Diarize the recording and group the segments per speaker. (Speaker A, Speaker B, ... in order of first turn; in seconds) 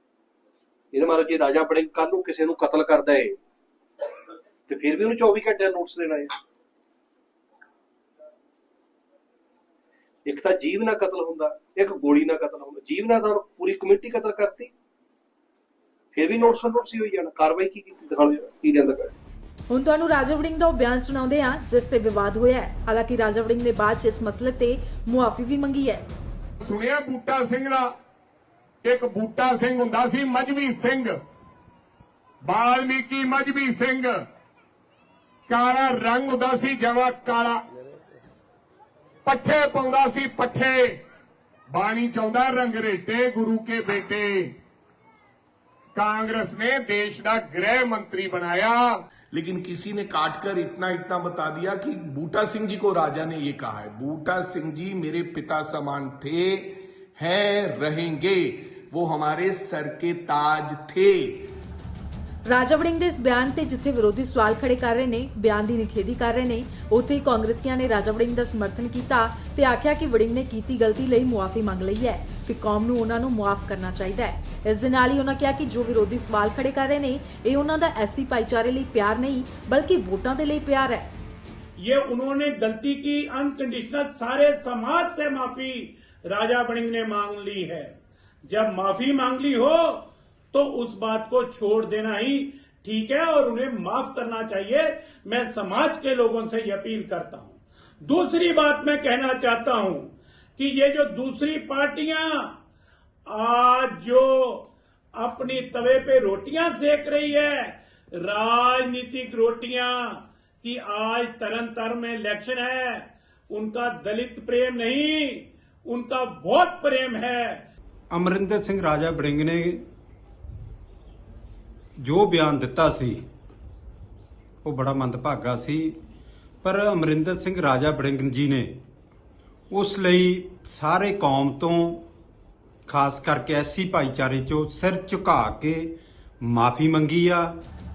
Speaker A: 0.9-3.4, 4.7-6.4, 10.3-14.7, 16.1-19.1
Speaker B: 19.7-26.0, 62.5-81.1
Speaker C: 26.6-27.9, 28.8-31.2, 32.4-34.2, 35.5-37.6, 39.2-41.0, 41.7-44.5, 46.0-49.0
Speaker D: 49.3-61.6
Speaker E: 81.8-88.0, 88.5-102.6, 103.3-117.7
Speaker F: 118.1-119.8, 122.0-123.2, 124.6-126.0, 126.6-128.7, 129.7-132.1, 132.9-137.5